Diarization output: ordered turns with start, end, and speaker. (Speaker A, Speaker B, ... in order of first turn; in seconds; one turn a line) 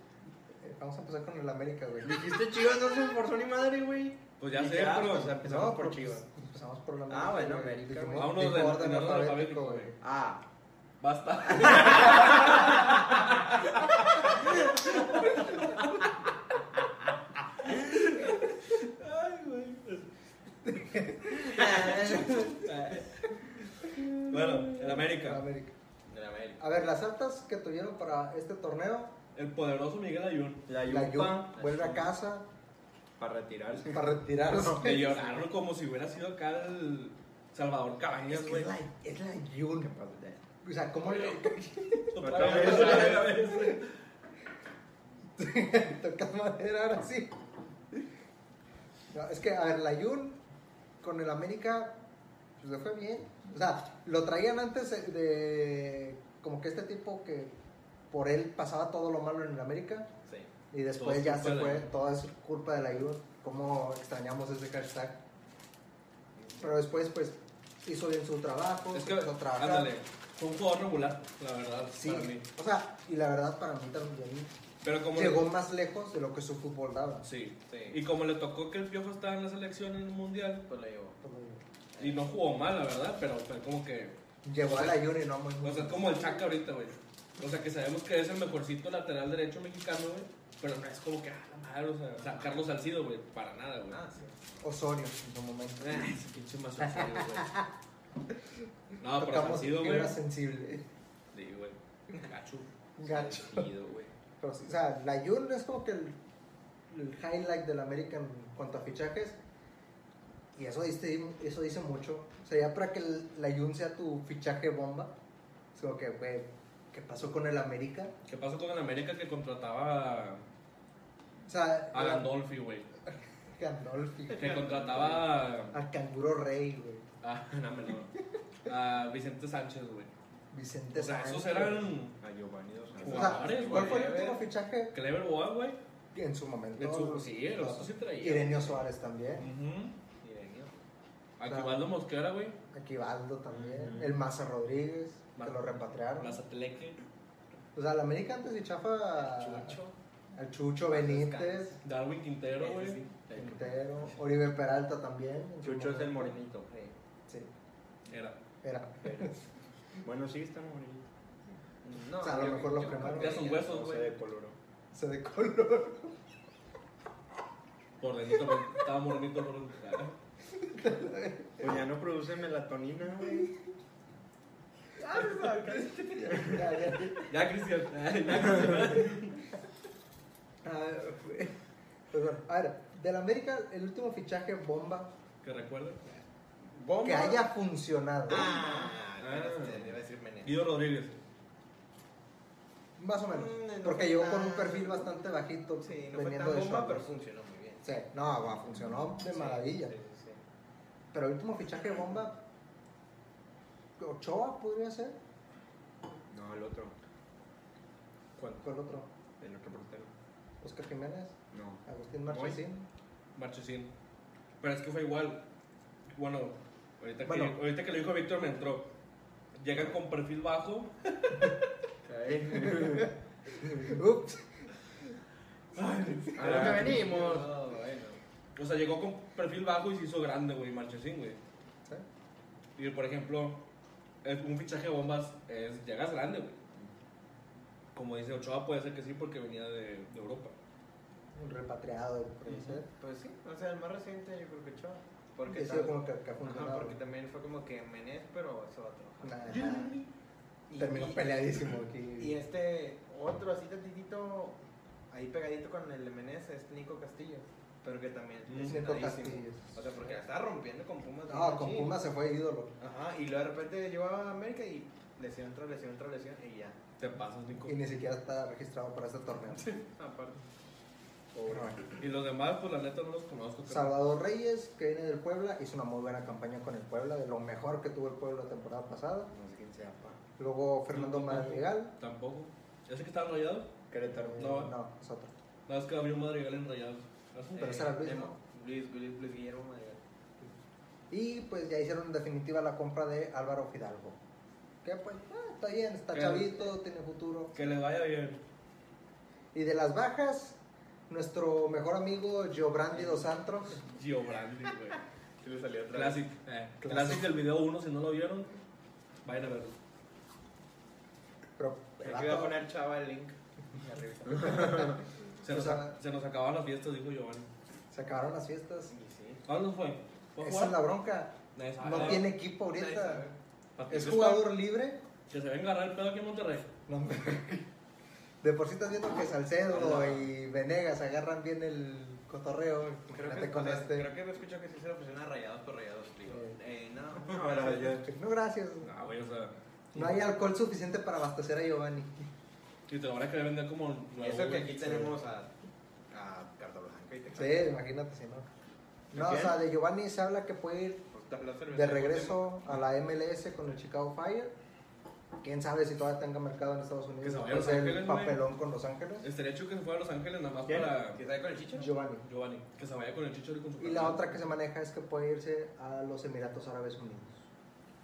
Speaker A: 0.6-2.3
Speaker B: 2.0-6.2
Speaker C: 4.4-5.4
Speaker A: 5.4-10.0
Speaker B: 7.1-8.3
Speaker C: 8.2-9.9
Speaker B: 10.0-10.4
Speaker C: 11.0-16.0
Speaker C: 17.6-20.1
Speaker A: 20.7-22.6
Speaker B: 21.5-22.6
Speaker C: 21.6-25.4
Speaker A: 24.9-25.8
Speaker D: 26.1-26.6
Speaker A: 26.6-29.1
Speaker C: 29.4-30.7
Speaker B: 30.7-31.8
Speaker A: 30.8-32.5
Speaker D: 31.6-31.9
Speaker B: 33.2-34.7
Speaker A: 33.9-35.5
Speaker C: 34.7-38.7
Speaker A: 38.3-43.8
Speaker B: 40.0-40.4
Speaker C: 42.1-43.9
Speaker B: 42.2-43.5
Speaker A: 45.4-47.3
Speaker A: 49.1-50.4
Speaker A: 51.0-52.0
Speaker A: 52.6-57.5
Speaker A: 58.1-60.1
Speaker A: 60.7-65.2
Speaker C: 61.0-61.9
Speaker D: 66.4-66.6
Speaker A: 66.6-69.9
Speaker C: 68.9-72.5
Speaker A: 71.9-74.5
Speaker C: 74.8-75.5
Speaker A: 75.1-77.3
Speaker C: 77.2-80.7
Speaker D: 77.7-78.0
Speaker D: 80.7-81.2
Speaker A: 81.2-81.6
Speaker D: 82.0-82.3
Speaker C: 82.0-84.2
Speaker A: 84.4-86.5
Speaker C: 85.6-94.0
Speaker D: 92.2-92.5
Speaker D: 93.9-94.6
Speaker A: 94.6-96.1
Speaker C: 95.8-97.6
Speaker A: 96.8-97.6
Speaker C: 99.0-100.2
Speaker A: 99.1-100.9
Speaker C: 101.3-102.7
Speaker A: 103.0-103.7
Speaker B: 103.1-104.1
Speaker A: 104.4-106.2
Speaker A: 106.9-109.4
Speaker A: 110.5-115.1
Speaker A: 115.7-118.1
Speaker C: 118.3-120.5
Speaker A: 121.5-122.4
Speaker C: 121.9-122.9
Speaker A: 123.1-127.0
Speaker C: 124.3-125.8
Speaker C: 127.2-128.1
Speaker C: 128.7-130.1
Speaker A: 130.5-132.0
Speaker C: 130.9-132.2
Speaker B: 132.2-133.9
Speaker C: 133.0-134.2
Speaker A: 133.0-134.9
Speaker D: 133.4-134.4
Speaker C: 134.9-135.8
Speaker A: 136.1-139.5
Speaker C: 136.8-140.0
Speaker D: 140.2-140.7
Speaker C: 141.4-142.6
Speaker A: 141.4-141.9
Speaker A: 142.7-146.4
Speaker B: 143.5-144.2
Speaker C: 145.4-147.0
Speaker A: 147.8-149.8
Speaker D: 149.2-149.9
Speaker A: 150.3-151.8
Speaker D: 150.9-151.8
Speaker C: 151.8-153.0
Speaker D: 152.6-153.7
Speaker A: 153.3-156.4
Speaker B: 155.6-156.6
Speaker D: 156.4-156.9
Speaker C: 158.1-158.4
Speaker A: 158.6-159.4
Speaker B: 160.0-161.1
Speaker D: 161.8-163.9
Speaker A: 162.2-163.4
Speaker C: 162.8-164.2
Speaker B: 163.5-164.6
Speaker A: 164.9-166.2
Speaker C: 168.0-170.2
Speaker A: 170.6-171.8
Speaker B: 171.6-173.5
Speaker D: 175.0-176.7
Speaker A: 176.2-177.3
Speaker C: 177.3-179.4
Speaker A: 180.6-181.6
Speaker A: 182.1-185.1
Speaker C: 185.4-186.0
Speaker D: 186.6-187.5
Speaker A: 187.0-188.8
Speaker D: 188.3-190.5
Speaker C: 189.2-191.2
Speaker A: 193.0-197.1
Speaker D: 193.3-195.1
Speaker D: 195.8-197.9
Speaker A: 197.8-199.9
Speaker D: 199.3-200.4
Speaker A: 201.1-202.4
Speaker A: 204.0-205.2
Speaker B: 206.3-206.9
Speaker A: 208.6-209.1
Speaker B: 209.4-210.1
Speaker A: 210.6-212.9
Speaker B: 211.5-212.6
Speaker C: 213.4-213.9
Speaker C: 214.6-215.4
Speaker C: 216.2-218.9
Speaker A: 217.2-217.6
Speaker C: 219.6-221.5
Speaker D: 222.1-223.0
Speaker B: 222.5-223.0
Speaker A: 222.7-224.7
Speaker C: 225.7-227.3
Speaker D: 226.4-228.2
Speaker B: 226.4-227.5
Speaker C: 228.6-231.4
Speaker C: 232.8-233.6
Speaker C: 234.2-236.6
Speaker C: 237.9-240.5
Speaker A: 241.3-242.9
Speaker D: 243.0-249.6
Speaker A: 245.5-247.0
Speaker A: 249.2-250.0
Speaker C: 249.5-250.1
Speaker D: 250.7-251.4
Speaker A: 250.8-252.3
Speaker D: 252.2-254.6
Speaker D: 255.1-262.0
Speaker C: 258.5-258.8
Speaker A: 258.6-260.0
Speaker A: 261.3-262.7
Speaker D: 262.8-266.8
Speaker C: 267.0-267.8
Speaker A: 267.6-269.7
Speaker D: 269.5-270.4
Speaker A: 271.5-271.9
Speaker C: 272.0-274.0
Speaker A: 273.7-279.3
Speaker B: 279.3-280.2
Speaker A: 280.4-281.9
Speaker C: 280.9-283.7
Speaker B: 283.9-284.6
Speaker A: 284.1-285.3
Speaker C: 284.4-284.7
Speaker C: 285.7-287.9
Speaker D: 287.6-290.0
Speaker A: 287.6-288.4
Speaker A: 291.1-294.2
Speaker A: 294.8-297.6
Speaker C: 296.1-296.6
Speaker C: 297.5-298.4
Speaker A: 299.5-300.6
Speaker A: 301.1-303.8
Speaker C: 303.8-305.0
Speaker D: 305.4-306.2
Speaker C: 305.9-308.6
Speaker A: 306.8-307.3
Speaker C: 309.2-309.8
Speaker A: 311.6-312.6
Speaker D: 312.0-314.9
Speaker A: 314.5-315.9
Speaker C: 315.4-317.5
Speaker A: 317.9-318.9
Speaker D: 318.9-319.4
Speaker C: 319.5-320.8
Speaker A: 320.4-323.2
Speaker C: 321.6-322.3
Speaker D: 322.0-323.4
Speaker C: 323.8-324.6
Speaker A: 323.9-325.0
Speaker C: 325.3-326.7
Speaker A: 326.9-327.7
Speaker A: 328.4-334.1
Speaker D: 329.7-330.2
Speaker D: 333.1-338.0
Speaker A: 336.3-336.6
Speaker B: 337.2-338.1
Speaker A: 338.0-338.9
Speaker C: 338.8-340.1
Speaker A: 339.9-342.2
Speaker C: 342.9-345.1
Speaker D: 344.2-345.5
Speaker D: 346.1-347.8
Speaker A: 347.4-348.5
Speaker A: 349.1-351.1
Speaker B: 349.1-349.6
Speaker D: 351.1-352.4
Speaker A: 351.7-354.5
Speaker A: 355.4-359.3
Speaker C: 357.2-358.4
Speaker C: 359.2-361.2
Speaker B: 360.7-360.9
Speaker D: 361.1-361.9
Speaker A: 361.8-362.2
Speaker C: 362.2-364.4
Speaker A: 363.8-367.4